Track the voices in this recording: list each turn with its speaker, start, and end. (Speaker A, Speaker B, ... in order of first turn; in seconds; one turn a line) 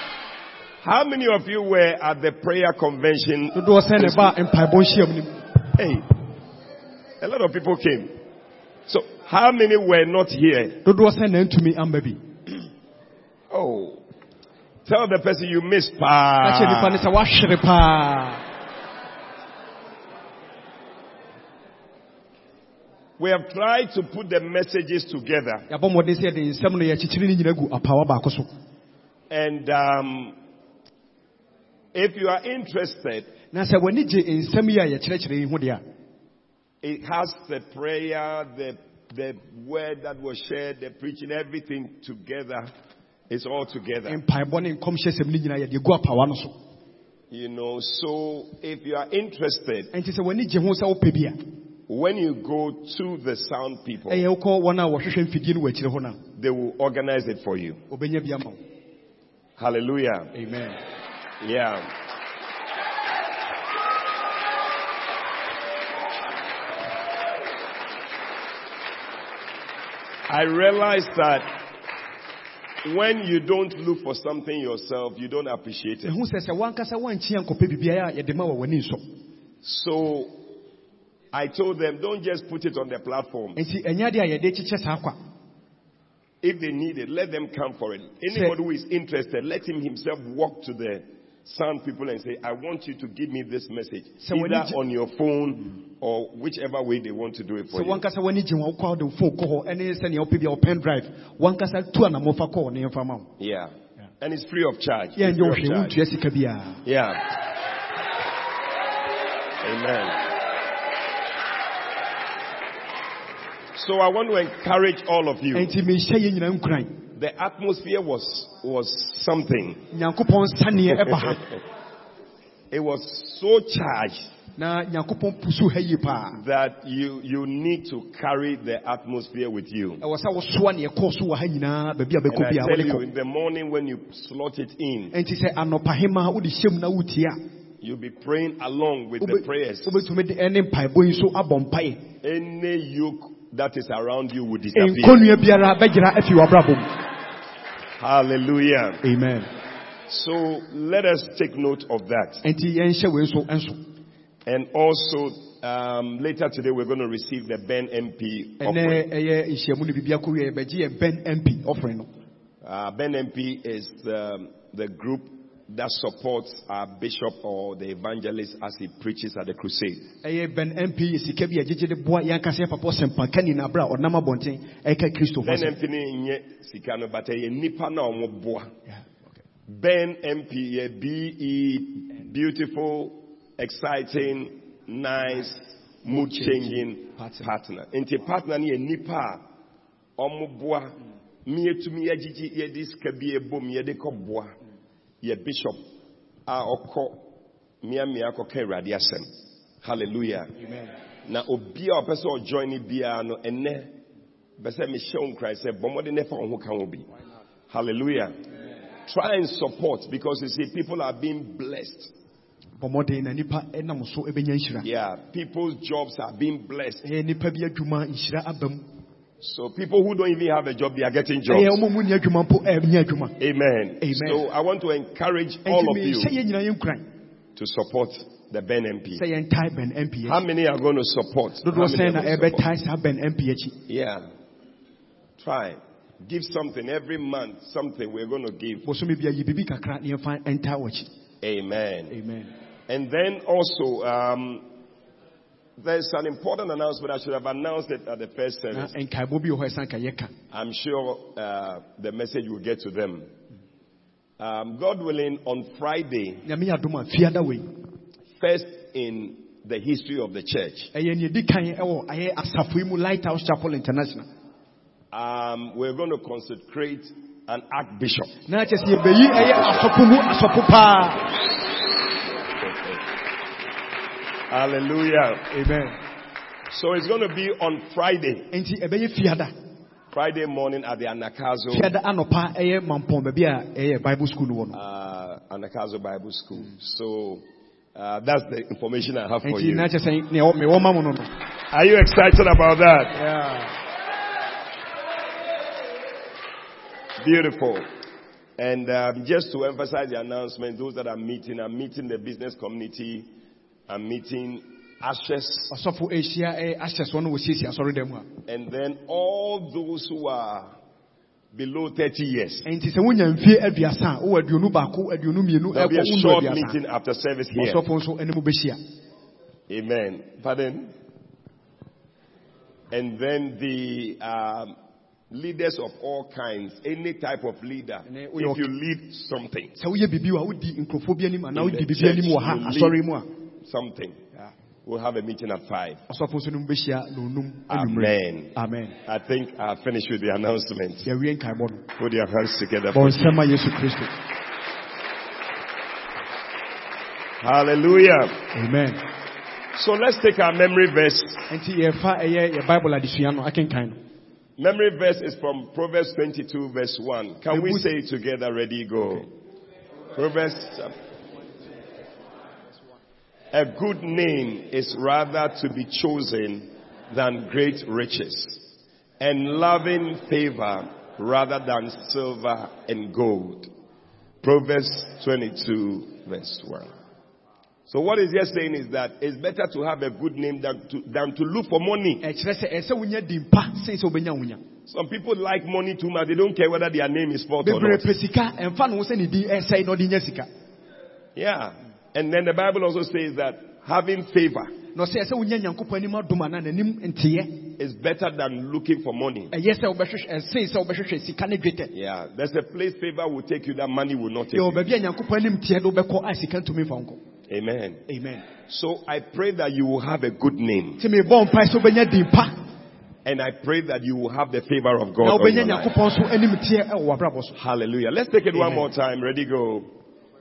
Speaker A: 0.8-4.3
Speaker B: 3.5-5.3
Speaker A: 5.8-6.1
Speaker A: 7.2-8.1
Speaker A: 8.9-10.8
Speaker B: 10.8-12.2
Speaker A: 13.5-14.0
Speaker A: 14.9-17.0
Speaker B: 16.4-18.4
Speaker A: 23.2-25.6
Speaker B: 25.7-28.5
Speaker A: 29.3-30.4
Speaker A: 31.9-33.3
Speaker B: 33.5-35.8
Speaker A: 36.8-42.7
Speaker A: 43.3-44.2
Speaker B: 44.0-46.5
Speaker A: 47.3-49.9
Speaker B: 49.9-51.4
Speaker A: 51.9-54.2
Speaker B: 54.1-56.2
Speaker A: 56.4-57.8
Speaker B: 57.9-58.6
Speaker A: 59.6-60.3
Speaker B: 60.3-60.8
Speaker A: 61.4-61.9
Speaker A: 70.3-71.5
Speaker A: 72.8-76.1
Speaker B: 76.0-79.0
Speaker A: 79.6-80.3
Speaker A: 81.3-83.6
Speaker B: 83.6-85.2
Speaker A: 86.4-98.0
Speaker B: 94.2-94.8
Speaker B: 97.7-103.3
Speaker A: 103.4-106.0
Speaker B: 105.2-106.8
Speaker A: 106.8-107.3
Speaker A: 109.6-110.2
Speaker A: 113.8-115.7
Speaker B: 115.5-117.0
Speaker A: 117.2-119.8
Speaker B: 119.9-121.4
Speaker A: 122.7-124.3
Speaker B: 124.6-126.4
Speaker A: 126.3-130.0
Speaker B: 130.0-133.0
Speaker A: 132.3-135.1
Speaker B: 135.1-137.4
Speaker A: 137.8-140.0
Speaker B: 139.2-142.0
Speaker A: 142.2-145.3
Speaker B: 144.7-146.9
Speaker A: 148.0-149.0
Speaker B: 149.0-149.5
Speaker A: 150.1-152.4
Speaker B: 152.4-153.8
Speaker A: 154.4-159.0
Speaker B: 158.6-162.1
Speaker A: 162.6-170.1
Speaker B: 170.2-175.7
Speaker A: 175.4-178.7
Speaker A: 179.7-189.4
Speaker B: 186.1-187.4
Speaker A: 190.2-190.9
Speaker A: 191.4-194.5
Speaker A: 195.2-195.8
Speaker A: 196.5-197.2
Speaker A: 197.8-199.3
Speaker A: 199.8-200.5
Speaker B: 200.6-200.9
Speaker A: 201.2-203.9
Speaker A: 204.6-207.0
Speaker A: 207.7-208.3
Speaker A: 209.1-212.1
Speaker B: 212.8-214.8
Speaker A: 214.8-217.0
Speaker B: 217.0-218.8
Speaker A: 219.4-221.8
Speaker B: 221.5-223.3
Speaker A: 223.4-226.3
Speaker B: 224.0-224.4
Speaker B: 225.7-227.1
Speaker A: 227.6-229.2
Speaker B: 229.2-230.4
Speaker A: 230.3-232.6
Speaker B: 231.6-233.8
Speaker A: 233.9-234.2
Speaker A: 235.4-238.8
Speaker B: 238.8-241.1
Speaker A: 241.4-242.1
Speaker B: 242.1-242.5
Speaker A: 242.9-244.6
Speaker A: 245.8-248.9
Speaker B: 248.7-250.3
Speaker A: 250.5-253.3
Speaker A: 254.4-256.4
Speaker B: 256.4-257.7
Speaker A: 258.4-260.9
Speaker B: 260.9-264.3
Speaker A: 265.1-268.3
Speaker B: 268.5-271.3
Speaker A: 269.4-269.8
Speaker A: 272.5-273.0
Speaker A: 274.5-275.4
Speaker B: 275.5-276.0
Speaker A: 276.7-278.5
Speaker B: 278.5-279.5
Speaker A: 280.1-281.9
Speaker B: 281.7-284.8
Speaker A: 284.7-287.4
Speaker A: 287.9-289.9
Speaker B: 289.4-291.3
Speaker A: 291.7-293.2
Speaker B: 293.1-293.7
Speaker A: 297.2-297.9
Speaker A: 298.6-303.3
Speaker A: 303.9-305.7
Speaker B: 305.7-308.3
Speaker A: 308.5-310.7
Speaker A: 311.5-312.6
Speaker B: 312.6-316.8
Speaker A: 315.7-317.8
Speaker B: 317.6-318.8
Speaker A: 319.7-320.9
Speaker A: 322.9-324.8
Speaker A: 325.3-329.7
Speaker B: 328.1-328.6
Speaker B: 329.8-333.3
Speaker A: 331.5-333.0
Speaker A: 333.6-334.2
Speaker A: 334.8-336.0
Speaker B: 336.1-338.9
Speaker A: 337.7-338.5
Speaker A: 339.1-341.1
Speaker B: 341.1-341.9
Speaker A: 342.0-343.3
Speaker B: 342.9-344.1
Speaker A: 347.4-348.4
Speaker B: 348.5-349.0
Speaker A: 349.8-351.4
Speaker B: 351.5-354.0
Speaker A: 354.6-359.3
Speaker B: 357.5-357.9
Speaker A: 360.1-360.9
Speaker A: 363.5-368.6
Speaker A: 369.2-373.7
Speaker A: 374.4-376.9
Speaker A: 377.9-382.2
Speaker B: 382.2-384.6
Speaker A: 384.9-388.1
Speaker B: 387.6-390.5
Speaker A: 391.4-394.7
Speaker B: 394.9-397.6
Speaker A: 397.8-399.5
Speaker B: 399.5-401.9
Speaker A: 401.9-404.9
Speaker B: 404.5-407.2
Speaker A: 407.5-408.0
Speaker B: 408.1-408.4
Speaker A: 408.7-411.0
Speaker B: 411.0-412.6
Speaker A: 413.2-415.9
Speaker B: 415.2-417.6
Speaker A: 417.6-419.9
Speaker B: 418.6-418.8